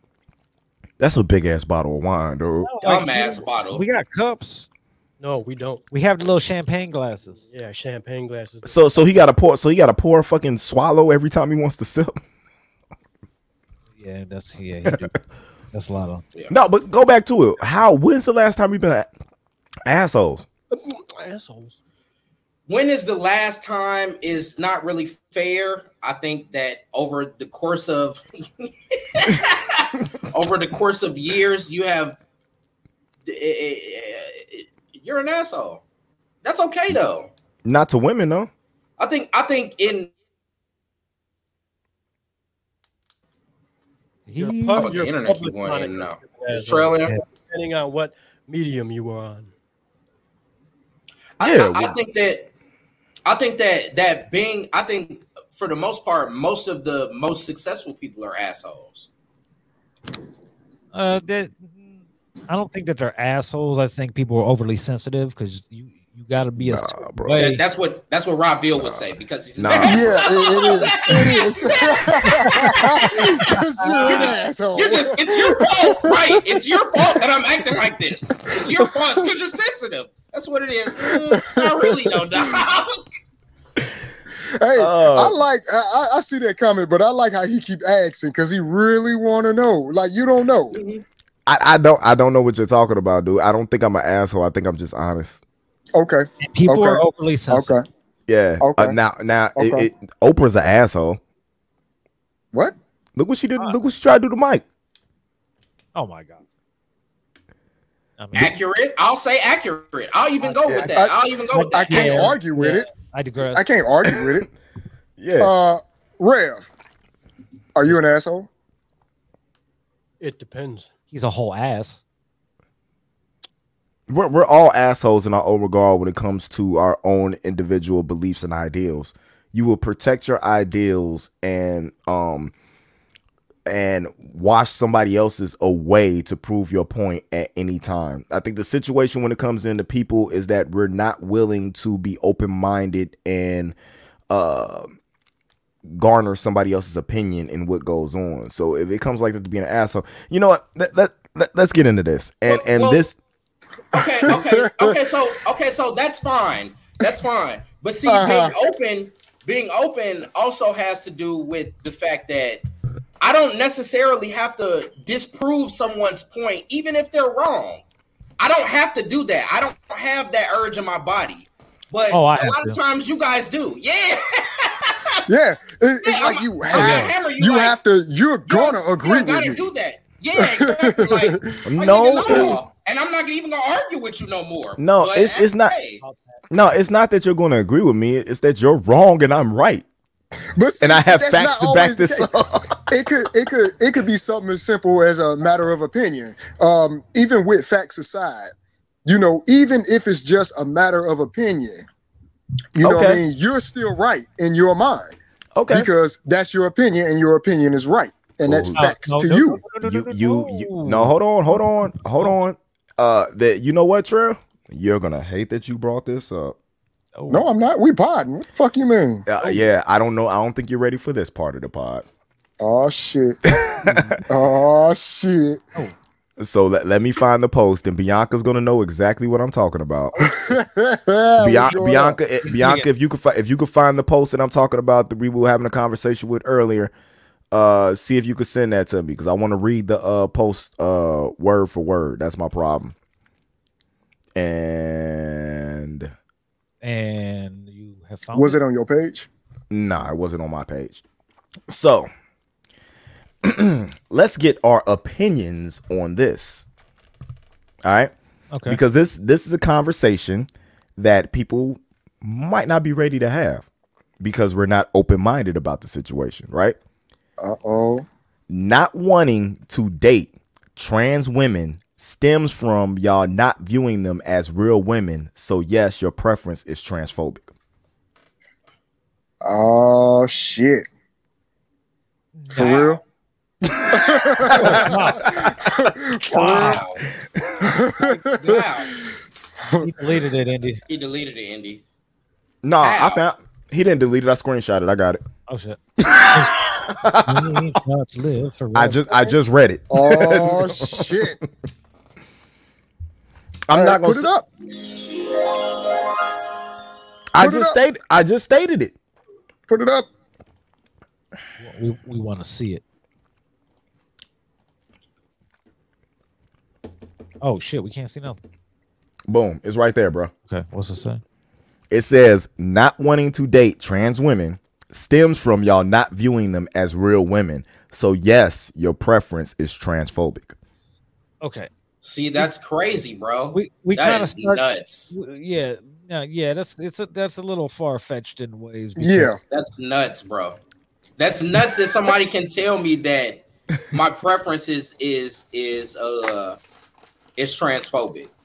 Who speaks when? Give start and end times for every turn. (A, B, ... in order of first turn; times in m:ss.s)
0:01.0-0:02.7 A
0:02.6-0:04.7 B
0:02.8-0:03.8 C
0:05.2-0:05.8 D
0:05.9-0:07.4 B
0:07.3-0:09.0 D
0:08.6-0:12.2 A
0:14.0-0:15.2 B
0:15.7-0:16.2 B
0:16.5-0:19.1 A
0:19.8-0:20.4 A
0:20.7-0:21.8 D
0:22.7-0:32.2 C
0:33.2-0:35.8 C
0:36.4-0:37.3 C
0:37.6-0:38.5 A
0:39.0-0:40.1 C
0:44.3-0:45.0 B
0:44.3-0:49.5 D
0:44.7-0:47.1 C
0:51.4-0:52.5 C
0:51.4-0:52.0 A
0:53.2-0:59.1 C
1:00.9-1:07.6 B
1:06.6-1:07.5 A
1:07.3-1:12.2 C
1:08.8-1:10.3 A
1:09.8-1:17.2 E
1:12.4-1:14.3 B
1:14.0-1:23.0 C
1:18.4-1:19.1 E
1:20.9-1:22.5 E
1:24.6-1:30.8 E
1:24.7-1:25.4 A
1:30.7-1:31.0 C
1:31.4-1:35.4 A
1:35.9-1:37.8 E
1:36.4-1:37.8 B
1:38.3-1:41.2 A
1:38.6-1:39.0 E
1:39.6-1:39.9 E
1:43.2-1:44.6 A
1:45.9-1:46.4 B
1:48.2-1:48.6 B
1:48.3-1:52.4 C
1:50.8-1:52.9 E
1:51.5-1:53.6 B
1:53.5-1:54.5 E
1:55.2-1:55.5 A
1:55.4-1:56.7 E
1:57.7-1:58.5 E
2:00.2-2:00.9 D
2:01.1-2:02.0 B
2:04.1-2:12.5 A
2:13.6-2:23.7 A
2:24.3-2:24.9 A
2:25.8-2:33.2 A
2:32.5-2:33.0 C
2:33.9-2:42.6 C
2:33.9-2:35.0 E
2:38.0-2:38.5 E
2:43.2-2:47.8 C
2:48.4-2:55.2 C
2:52.1-2:52.8 B
2:55.3-2:59.6 E
2:56.0-2:57.8 C
2:56.7-2:57.1 B
2:58.5-3:06.0 C
3:00.4-3:01.6 E
3:01.7-3:02.6 A
3:02.3-3:02.5 E
3:04.8-3:05.8 A
3:06.0-3:06.3 B
3:06.5-3:09.8 A
3:10.6-3:12.3 E
3:10.8-3:12.8 A
3:12.9-3:18.5 E
3:19.0-3:21.8 E
3:22.7-3:25.1 E
3:22.8-3:23.2 A
3:25.6-3:25.9 A
3:25.7-3:29.6 E
3:28.4-3:28.8 A
3:28.8-3:31.1 B
3:29.8-3:36.6 A
3:37.2-3:37.5 B
3:37.3-3:39.2 E
3:39.3-3:42.0 A
3:42.6-3:43.6 E
3:43.5-3:44.2 A
3:43.8-3:44.2 B
3:44.2-3:45.6 E
3:46.4-3:50.6 A
3:50.3-3:52.2 E
3:51.4-3:56.9 A
3:52.4-3:52.9 B
3:57.5-4:02.9 A
4:04.4-4:06.1 A
4:06.8-4:08.6 B
4:08.3-4:09.3 E
4:09.7-4:11.0 A
4:11.7-4:12.1 A
4:13.4-4:16.6 A
4:17.8-4:18.1 A
4:18.5-4:18.8 B
4:18.7-4:23.7 A
4:24.2-4:26.8 A
4:27.4-4:28.0 E
4:28.5-4:37.5 A
4:39.4-4:40.8 E
4:42.4-4:42.9 B
4:42.5-4:43.0 C
4:42.5-4:43.0 E
4:43.6-4:46.8 E
4:44.4-4:45.9 A
4:44.5-4:45.3 B
4:46.2-4:46.8 B
4:46.4-4:47.0 C
4:47.4-4:47.6 A
4:47.6-4:49.9 E
4:48.0-4:48.9 C
4:49.8-4:50.8 B
4:50.9-4:51.8 C
4:52.6-4:55.2 A
4:52.8-4:53.2 C
4:55.5-4:55.8 B
4:56.0-4:57.7 A
4:57.2-4:59.4 B
4:58.7-5:01.4 A
4:59.9-5:01.4 E
5:03.7-5:04.3 A
5:03.7-5:04.5 E
5:07.3-5:08.9 A
5:07.4-5:07.8 E
5:09.7-5:10.1 E
5:11.6-5:12.8 B
5:17.4-5:18.4 B
5:19.3-5:20.3 A
5:20.5-5:21.2 B
5:21.9-5:30.6 A
5:31.4-5:31.7 B
5:32.0-5:35.1 C
5:33.5-5:39.3 B
5:39.0-5:39.4 E
5:39.5-5:40.6 C
5:41.2-5:46.6 C
5:47.4-5:48.3 C